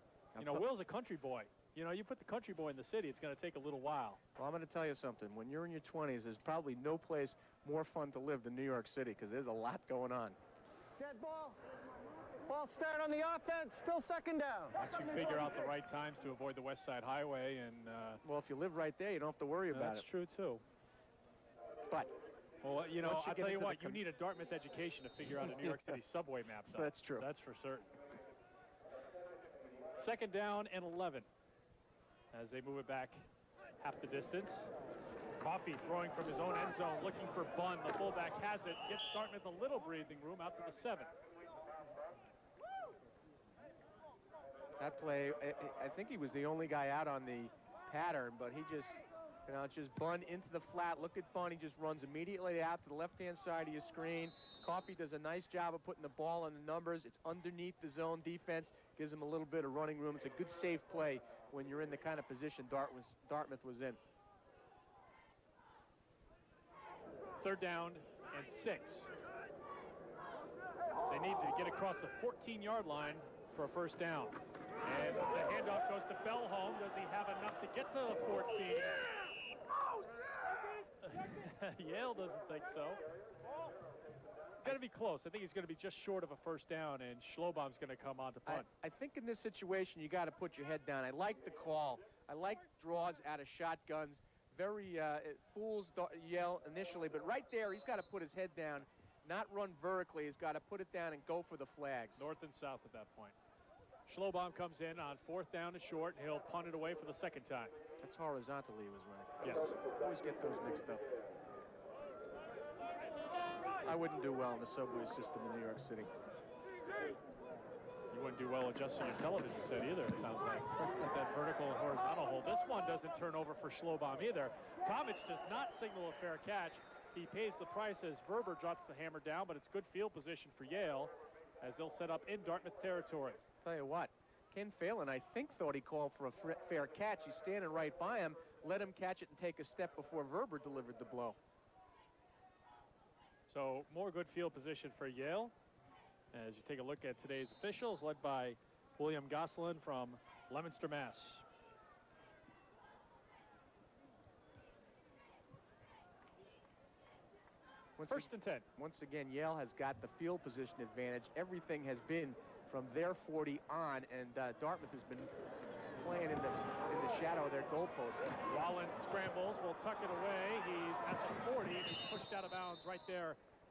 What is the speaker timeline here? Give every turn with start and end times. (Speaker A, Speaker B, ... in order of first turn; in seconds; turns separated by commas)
Speaker A: 0.3-0.7, Speaker B: 0.4-4.2, Speaker A: 4.4-10.4, Speaker C: 11.0-11.6, Speaker C: 12.4-14.8, Speaker B: 14.8-18.2, Speaker A: 18.2-20.1, Speaker B: 19.7-20.6, Speaker B: 22.6-27.9, Speaker A: 23.0-24.0, Speaker A: 25.5-26.0, Speaker A: 26.7-27.3, Speaker B: 30.0-31.2, Speaker B: 32.3-33.2, Speaker B: 33.8-34.7, Speaker B: 35.4-41.1, Speaker A: 44.8-64.0, Speaker B: 67.4-69.1, Speaker B: 71.1-79.0, Speaker B: 81.0-83.0, Speaker B: 84.6-88.7, Speaker A: 88.5-102.2, Speaker B: 102.2-103.3, Speaker B: 104.1-107.7, Speaker A: 108.0-111.0, Speaker B: 109.4-109.7, Speaker A: 113.8-116.1, Speaker B: 118.1-133.4, Speaker A: 133.6-141.4, Speaker B: 143.5-145.5, Speaker B: 146.3-151.4, Speaker A: 158.0-165.3, Speaker B: 158.1-158.7, Speaker A: 165.9-168.4, Speaker B: 168.5-173.4